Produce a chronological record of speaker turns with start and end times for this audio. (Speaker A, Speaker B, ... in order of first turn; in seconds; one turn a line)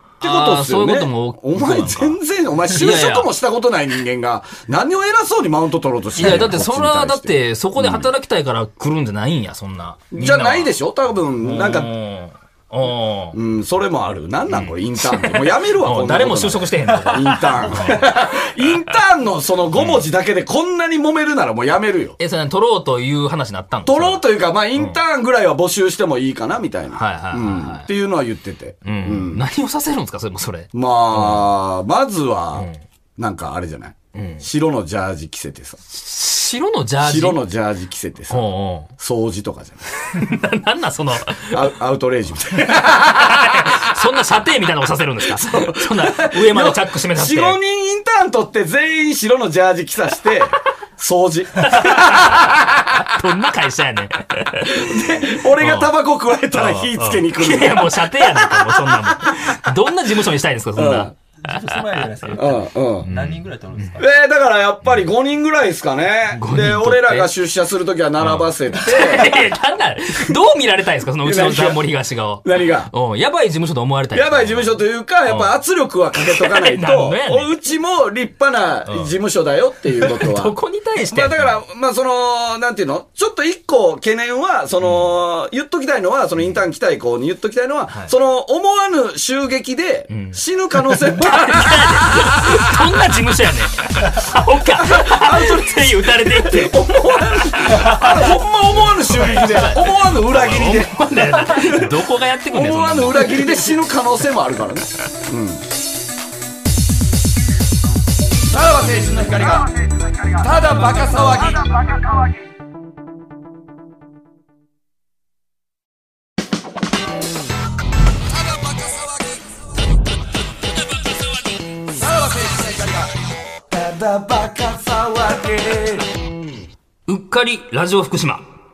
Speaker A: 0.2-2.2
Speaker B: 0.2-8.1
Speaker A: 2.7-3.3
Speaker A: 6.2-10.7
Speaker B: 10.1-11.9
Speaker A: 11.4-13.4
Speaker B: 13.3-22.2
Speaker A: 14.5-18.2
Speaker A: 19.8-20.1
Speaker A: 22.2-24.2
Speaker B: 23.9-29.4
Speaker A: 26.9-27.9
Speaker A: 28.8-31.5
Speaker B: 30.7-35.8
Speaker A: 32.6-32.8
Speaker A: 34.1-34.5
Speaker A: 35.9-37.4
Speaker B: 37.0-38.4
Speaker A: 38.3-38.9
Speaker B: 39.0-39.8
Speaker A: 40.1-41.7
Speaker B: 41.4-43.9
Speaker A: 42.9-47.6
Speaker B: 45.3-53.1
Speaker A: 51.7-54.9
Speaker B: 54.6-59.4
Speaker A: 55.6-55.9
Speaker A: 56.5-61.2
Speaker B: 60.8-61.1
Speaker C: 61.4-64.1
Speaker B: 62.3-63.1
Speaker A: 63.0-64.0
Speaker B: 64.0-69.4
Speaker A: 66.3-67.3
Speaker A: 68.2-75.5
Speaker B: 71.2-71.8
Speaker B: 72.4-72.9
Speaker B: 74.1-92.8
Speaker A: 76.2-77.5
Speaker A: 78.9-79.1
Speaker A: 80.0-81.5
Speaker A: 84.8-85.1
Speaker A: 90.1-103.6
Speaker B: 94.7-105.6
Speaker B: 108.5-112.0
Speaker B: 118.5-119.1
Speaker B: 121.9-123.2
Speaker B: 123.7-126.4
Speaker A: 127.1-128.5